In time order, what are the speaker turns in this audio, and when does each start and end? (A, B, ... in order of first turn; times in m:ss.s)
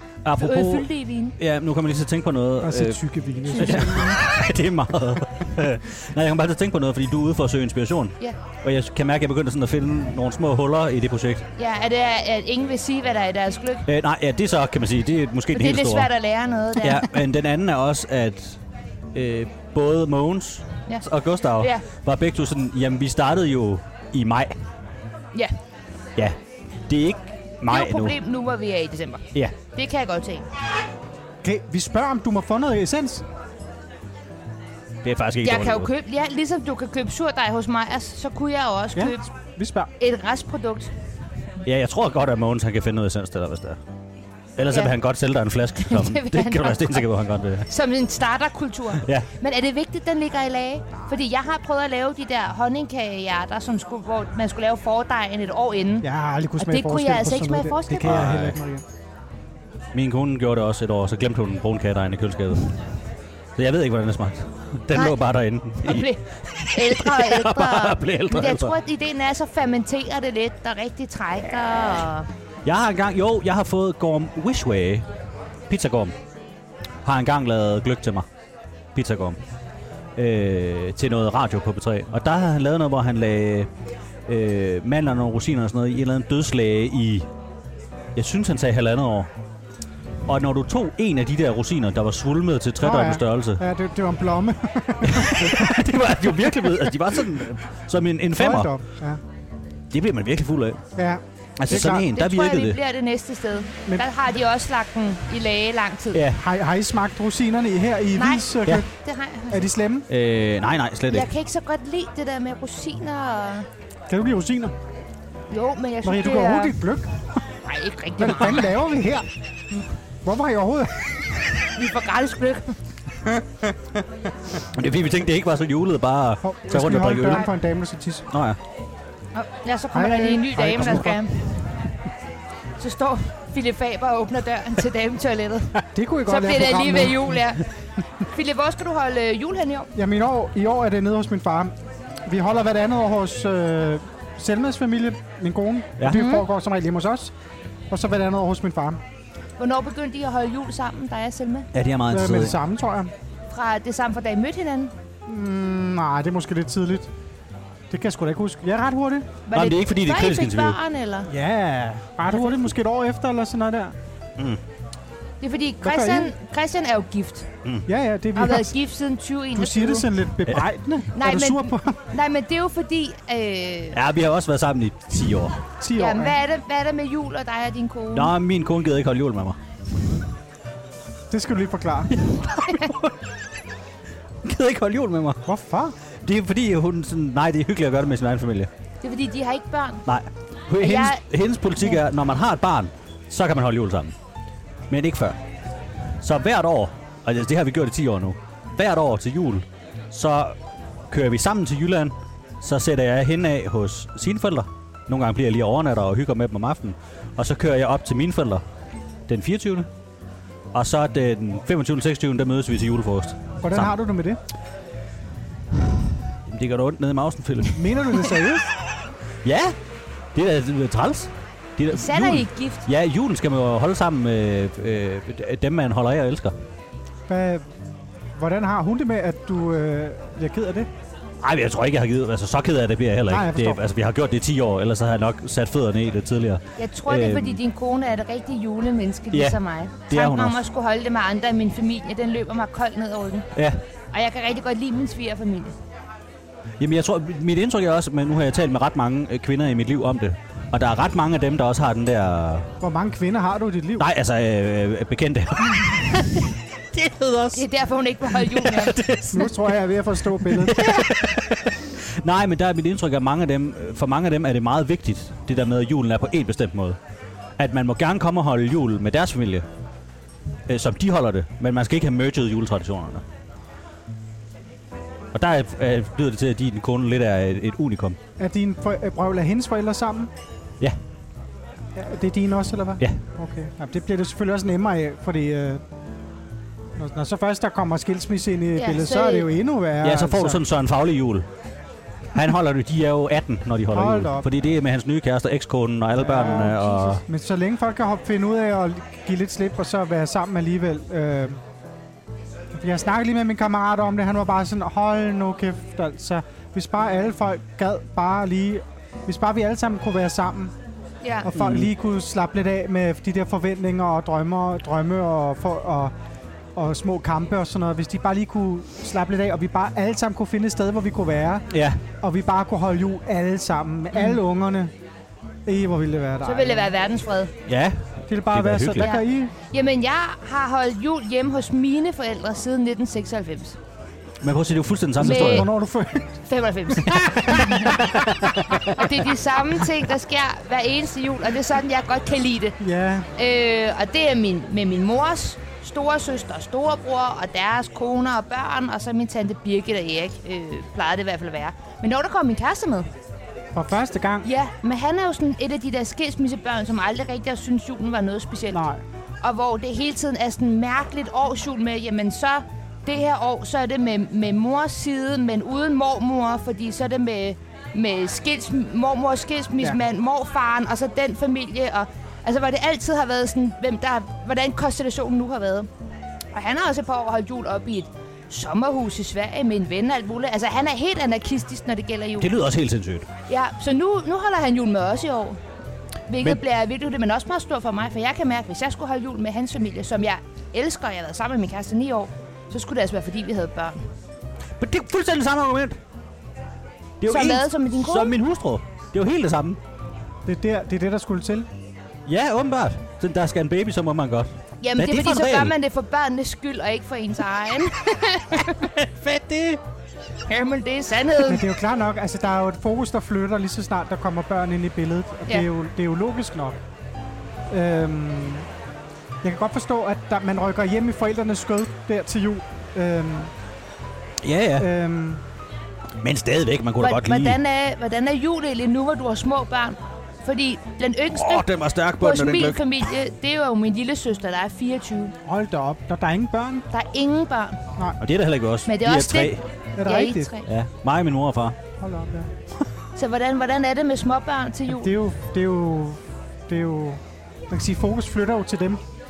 0:00.2-0:11.4 A
0:00.4-0:01.4 B
0:02.6-0:04.2 C
0:11.6-0:13.8 B
0:13.8-0:16.1 A
0:15.5-0:17.2 B
0:16.8-0:18.6 A
0:19.1-0:24.6 A
0:20.9-0:21.8 B
0:26.2-0:28.2 A
0:27.7-0:30.4 B
0:31.4-0:33.2 C
0:35.0-0:35.9 A
0:35.4-0:39.2 B
0:38.9-0:39.9 C
0:40.0-0:40.9 B
0:41.6-0:43.8 A
0:44.6-0:47.7 A
0:45.8-0:47.0 B
0:47.7-0:56.1 B
0:49.0-0:49.3 A
0:56.0-0:58.8 C
0:56.6-0:58.2 B
0:58.0-0:58.6 A
0:59.9-1:02.8 A
1:03.6-1:08.7 A
1:04.9-1:05.2 B
1:05.8-1:12.3 B
1:12.6-1:15.0 A
1:15.7-1:16.1 A
1:17.0-1:18.3 A
1:18.9-1:19.4 A
1:20.2-1:23.7 A
1:24.3-1:27.3 A
1:28.1-1:29.3 A
1:30.2-1:33.6 A
1:32.8-1:37.0 C
1:35.0-1:38.7 A
1:38.3-1:39.2 C
1:39.9-1:40.8 A
1:41.0-1:42.1 C
1:41.6-1:42.8 A
1:41.7-1:46.2 B
1:46.1-1:46.4 A
1:46.3-1:48.9 C
1:48.2-1:49.6 B
1:49.5-1:50.1 C
1:50.1-1:51.3 A
1:51.1-1:53.7 B
1:54.1-1:54.8 C
1:55.5-1:56.8 B
1:56.0-1:57.2 C
1:57.6-1:58.7 B
1:58.2-1:59.3 C
2:00.2-2:01.0 C
2:01.7-2:02.8 B
2:04.7-2:07.5 A
2:06.4-2:08.3 C
2:08.3-2:08.6 A
2:09.3-2:11.8 B
2:09.9-2:11.2 C
2:12.8-2:17.6 B
2:15.9-2:17.4 C
2:18.2-2:19.9 B
2:19.9-2:21.7 C
2:22.2-2:27.3 C
2:26.1-2:26.4 B
2:27.9-2:29.0 C
2:29.6-2:31.7 B
2:31.7-2:32.5 A
2:32.1-2:33.1 C
2:33.5-2:34.9 B
2:35.3-2:37.1 C
2:37.9-2:39.4 C
2:39.4-2:41.3 B
2:39.5-2:40.8 A
2:41.3-2:43.9 C
2:45.4-2:47.5 B
2:45.8-2:46.3 C
2:47.8-2:48.7 C
2:48.3-2:50.1 B
2:49.5-2:52.0 C
2:51.1-2:54.0 B
2:53.9-2:55.6 A
2:55.8-2:56.4 C
2:55.9-2:58.3 B
2:58.1-2:59.6 A
3:01.3-3:02.1 C
3:02.2-3:03.1 A
3:04.4-3:05.4 A
3:05.4-3:06.0 C
3:06.1-3:08.7 A
3:09.0-3:10.0 B
3:10.0-3:14.1 A
3:10.8-3:11.2 B
3:14.9-3:15.4 A
3:16.2-3:20.6 A
3:21.1-3:28.6 A
3:29.3-3:29.9 A
3:30.7-3:33.9 A
3:33.6-3:34.4 C
3:36.4-3:38.3 A
3:37.7-3:38.6 C
3:39.4-3:39.8 A
3:40.3-3:46.5 A
3:41.9-3:42.8 B
3:47.3-3:47.6 C
3:48.3-3:50.9 C
3:51.4-3:57.6 A
3:53.3-3:53.9 C
3:56.8-4:03.5 B
3:59.3-3:59.6 A
4:00.1-4:00.6 A
4:04.1-4:05.7 B
4:06.8-4:12.7 A
4:12.8-4:14.1 C
4:14.0-4:17.6 A
4:17.5-4:19.0 B
4:18.3-4:19.6 A
4:19.3-4:20.9 C
4:20.4-4:27.0 A
4:27.6-4:29.6 A
4:30.7-4:33.2 A
4:35.3-4:38.2 A
4:38.4-4:40.3 C
4:41.9-4:45.8 C
4:47.0-4:50.6 C
4:48.8-4:49.5 B
4:50.0-4:51.5 A
4:52.3-4:57.2 A
4:53.9-4:54.5 C
4:56.2-5:01.6 C
5:02.7-5:10.7 C
5:11.2-5:11.5 B
5:11.4-5:16.1 C
5:11.5-5:11.9 A
5:16.7-5:21.7 C
5:21.7-5:22.0 A
5:22.2-5:24.9 C
5:25.6-5:26.9 C
5:26.4-5:27.5 B
5:27.7-5:29.1 A
5:28.3-5:29.5 C
5:29.0-5:33.8 B
5:34.4-5:35.7 A
5:35.2-5:35.7 B
5:35.2-5:36.4 C
5:36.5-5:38.0 B
5:37.0-5:38.1 C
5:37.5-5:39.1 A
5:38.9-5:42.8 B
5:42.8-5:43.3 C
5:43.4-5:53.1 B
5:53.7-5:54.5 C
5:54.4-5:58.8 B
5:58.7-5:59.0 C
5:59.4-6:15.9 B
6:16.5-6:22.5 B
6:22.4-6:23.3 A
6:23.5-6:25.6 B
6:26.3-6:34.0 B
6:34.8-6:36.0 A
6:37.2-6:39.8 A
6:37.3-6:38.4 B
6:40.4-6:41.7 C
6:42.2-6:45.7 A
6:44.8-6:48.8 B
6:48.7-6:49.8 A
6:50.5-6:51.6 B
6:51.4-6:56.8 C
6:57.7-6:58.7 C
6:59.4-7:03.5 C
7:04.4-7:04.9 A
7:04.8-7:05.4 C
7:06.2-7:07.6 A
7:07.0-7:11.7 B
7:11.3-7:12.8 A
7:12.2-7:15.3 B
7:15.4-7:16.9 C
7:16.9-7:17.8 B
7:18.2-7:19.6 A
7:18.8-7:20.7 B
7:20.0-7:20.5 C
7:20.6-7:21.8 A
7:22.0-7:22.5 C
7:23.2-7:25.1 B
7:24.9-7:29.0 C